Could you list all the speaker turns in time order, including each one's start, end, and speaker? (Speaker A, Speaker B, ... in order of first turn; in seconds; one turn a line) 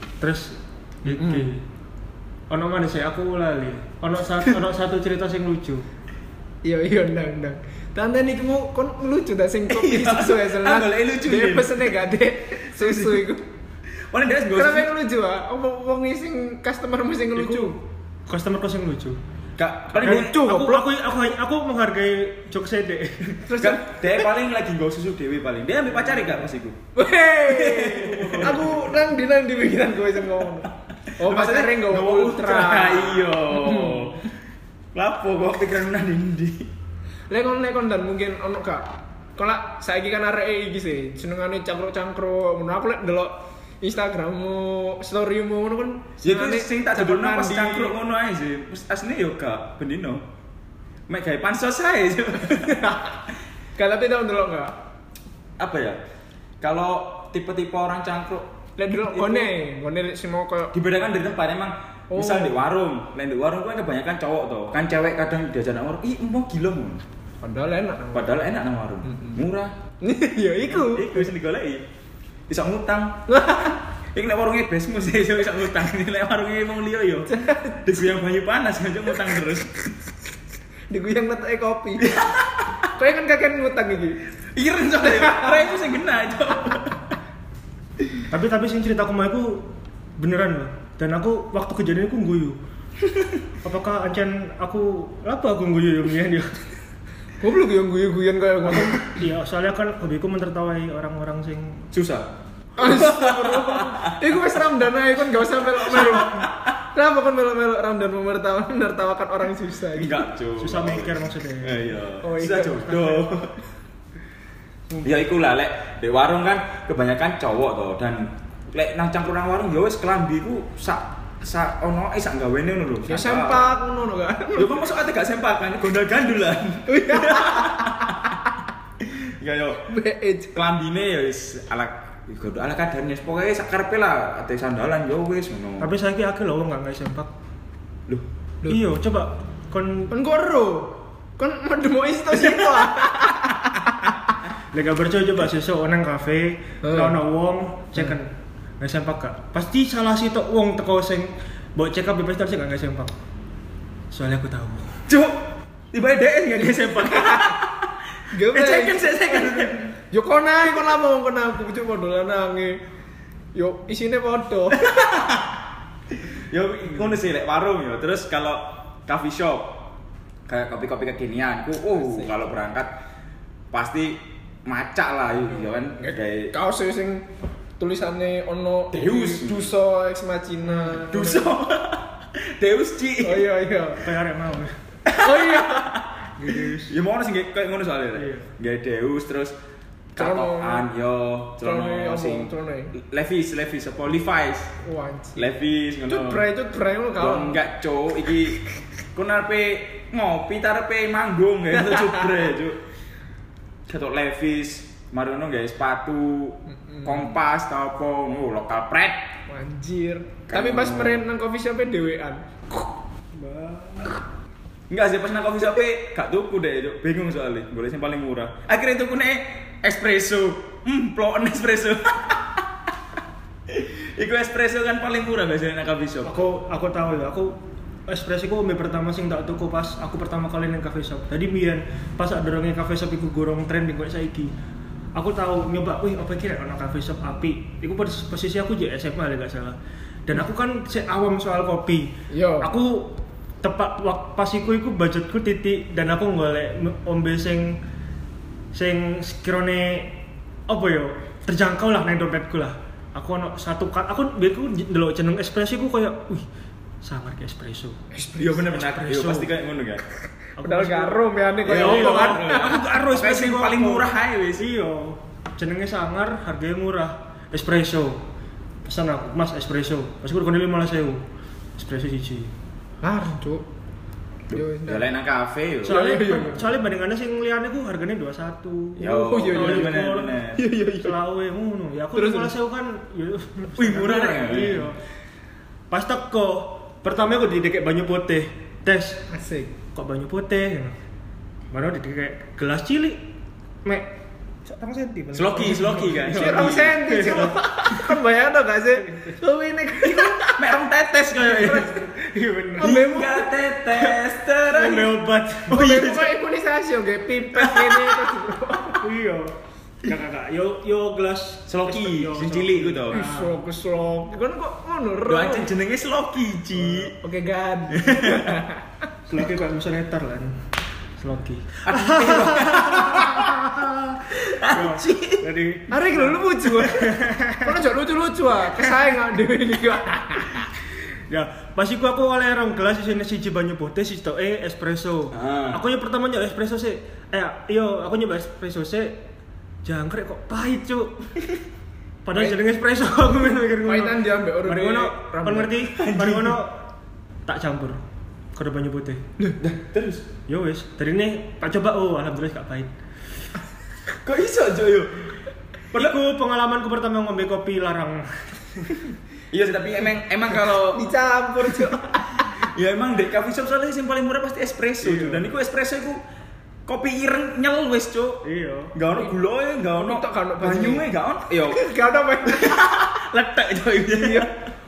Speaker A: 0.2-1.6
Speaker B: 1.1-1.5
Speaker A: 2.5-5.8
Speaker B: 6.6-13.4
Speaker C: 9.7-11.9
Speaker C: 12.6-13.3
Speaker C: 14.1-14.9
Speaker B: 14.5-17.8
Speaker A: 17.4-19.2
Speaker C: 19.6-20.4
Speaker B: 19.9-20.8
Speaker A: 20.0-23.4
Speaker B: 23.4-24.2
Speaker C: 23.6-26.8
Speaker A: 25.9-26.4
Speaker B: 26.9-34.1
Speaker C: 27.5-28.7
Speaker A: 27.8-29.0
Speaker C: 31.2-34.3
Speaker C: 34.9-36.7
Speaker B: 37.3-47.9
Speaker C: 46.2-50.2
Speaker C: 51.1-52.8
Speaker B: 52.5-53.1
Speaker B: 53.8-54.8
Speaker C: 55.6-56.0
Speaker C: 56.6-59.5
Speaker B: 58.8-60.7
Speaker C: 60.7-67.0
Speaker B: 62.1-62.6
Speaker B: 67.4-68.4
Speaker C: 68.1-69.7
Speaker B: 69.0-69.4
Speaker B: 70.0-71.3
Speaker C: 70.6-71.8
Speaker C: 72.5-73.3
Speaker B: 73.3-73.8
Speaker C: 74.1-79.7
Speaker B: 77.3-78.0
Speaker B: 80.9-82.3
Speaker C: 82.0-82.7
Speaker B: 83.0-84.2
Speaker C: 84.5-87.0
Speaker B: 85.0-85.7
Speaker A: 88.3-92.6
Speaker A: 93.6-96.6
Speaker B: 97.4-99.2
Speaker A: 98.6-101.9
Speaker C: 101.9-104.2
Speaker B: 102.8-110.3
Speaker C: 105.9-106.7
Speaker C: 110.0-113.6
Speaker A: 110.6-112.0
Speaker B: 112.2-113.3
Speaker C: 115.0-123.7
Speaker B: 123.1-124.9
Speaker C: 124.6-128.3
Speaker B: 126.9-128.1
Speaker C: 129.0-129.9
Speaker B: 129.8-130.5
Speaker C: 130.5-135.9
Speaker A: 135.8-137.3
Speaker A: 138.6-140.1
Speaker B: 140.1-144.1
Speaker A: 144.7-153.2
Speaker B: 146.8-147.2
Speaker A: 154.1-154.9
Speaker C: 155.1-159.9
Speaker B: 156.7-157.6
Speaker B: 158.3-162.8
Speaker B: 163.5-165.2
Speaker C: 164.8-165.4
Speaker C: 166.2-169.8
Speaker C: 170.5-172.9
Speaker B: 172.0-172.3
Speaker C: 173.7-176.6
Speaker B: 175.6-177.3
Speaker B: 177.8-181.5
Speaker C: 178.9-179.7
Speaker A: 180.6-181.0
Speaker C: 181.0-183.5
Speaker B: 183.2-184.1
Speaker A: 184.0-184.8
Speaker C: 185.1-189.6
Speaker B: 185.1-186.0
Speaker A: 186.4-186.9
Speaker A: 188.2-188.5
Speaker C: 190.2-194.7
Speaker B: 190.2-190.9
Speaker B: 191.6-192.9
Speaker B: 194.8-195.4
Speaker C: 195.3-196.4
Speaker B: 196.1-197.6
Speaker C: 197.2-198.6
Speaker C: 199.1-202.8
Speaker B: 201.8-202.4
Speaker C: 203.9-209.2
Speaker B: 206.7-207.4
Speaker B: 209.5-212.8
Speaker C: 210.5-211.2
Speaker A: 213.3-214.1
Speaker C: 214.9-222.6
Speaker C: 223.7-226.4
Speaker A: 226.2-234.5
Speaker A: 235.1-247.8
Speaker B: 242.3-242.7
Speaker A: 248.7-256.5
Speaker A: 257.0-258.0
Speaker B: 258.1-258.7
Speaker C: 258.3-260.0
Speaker A: 258.7-259.5
Speaker B: 260.6-262.9
Speaker A: 260.6-268.2
Speaker C: 261.6-264.7
Speaker A: 268.8-271.2
Speaker A: 271.8-272.5
Speaker B: 273.0-273.7
Speaker C: 274.5-275.9
Speaker B: 274.5-275.1
Speaker A: 275.8-280.4
Speaker B: 275.8-276.7
Speaker C: 279.0-280.6
Speaker B: 279.0-281.2
Speaker A: 281.0-285.0
Speaker B: 282.1-282.5
Speaker C: 283.8-284.9
Speaker A: 285.9-289.3
Speaker B: 289.3-289.7
Speaker A: 289.9-291.0
Speaker A: 291.7-293.3
Speaker A: 293.8-298.1
Speaker C: 295.3-297.0
Speaker B: 296.2-300.7
Speaker A: 298.9-299.4
Speaker C: 300.0-302.0
Speaker A: 301.3-303.0
Speaker B: 302.8-303.6
Speaker C: 302.8-305.2
Speaker A: 304.6-306.1
Speaker B: 305.7-309.1
Speaker C: 305.7-306.3
Speaker C: 307.5-308.3
Speaker A: 309.0-313.6
Speaker C: 311.7-313.2
Speaker B: 313.1-315.7
Speaker C: 315.3-317.1
Speaker B: 317.1-319.1
Speaker C: 317.9-318.6
Speaker A: 319.2-320.6
Speaker A: 321.2-327.8
Speaker C: 321.8-323.7
Speaker C: 324.2-325.4
Speaker B: 325.9-330.7
Speaker A: 331.3-339.2
Speaker C: 335.3-335.8
Speaker A: 339.8-341.2
Speaker A: 342.2-346.9
Speaker B: 343.9-345.8
Speaker C: 345.9-346.6
Speaker A: 347.5-348.0
Speaker A: 348.6-349.2
Speaker C: 349.6-350.3
Speaker A: 350.5-352.9
Speaker C: 354.2-355.3
Speaker A: 355.9-359.1
Speaker C: 359.5-361.1
Speaker B: 360.7-362.5
Speaker C: 362.4-366.2
Speaker A: 365.0-365.5
Speaker C: 366.9-371.8
Speaker A: 368.4-368.9
Speaker B: 370.0-372.9
Speaker C: 372.4-374.6
Speaker B: 374.1-374.5